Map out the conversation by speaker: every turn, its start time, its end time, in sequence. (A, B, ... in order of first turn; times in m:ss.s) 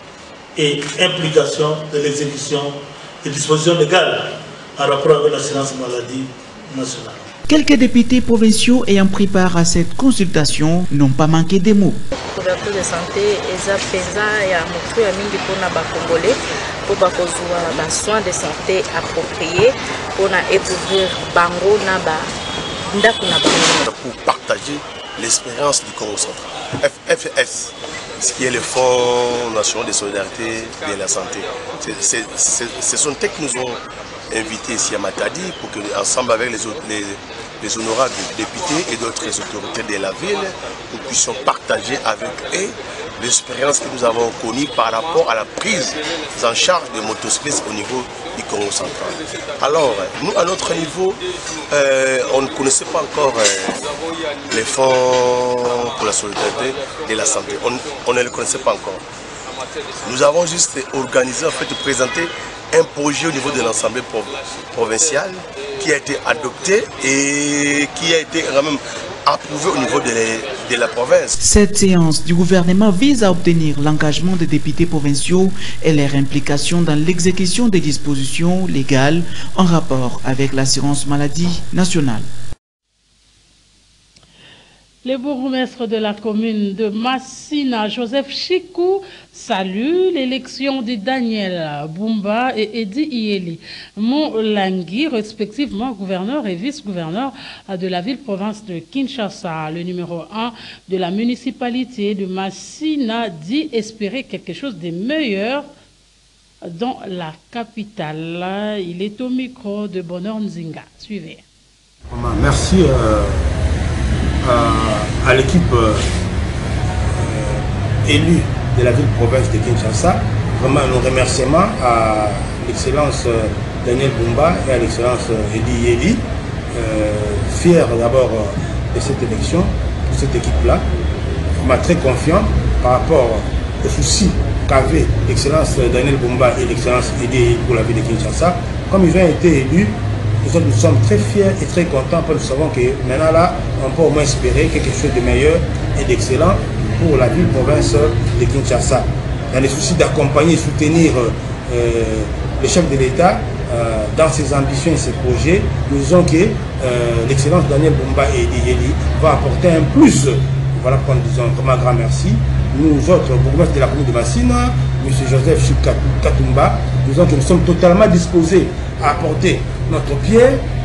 0:00.6-0:07.2 A
0:07.5-0:12.1 B
0:12.1-0:22.3 C
0:22.9-0:23.8 C
0:23.8-0:53.9 D
0:54.5-0:59.0 D
1:00.0-1:11.4 D
1:11.4-1:22.3 B
1:25.0-1:45.7 E
1:46.6-1:51.4 E
1:52.1-1:53.5 F
1:54.4-1:56.0 F
1:57.1-2:10.9 F
2:11.6-2:50.6 F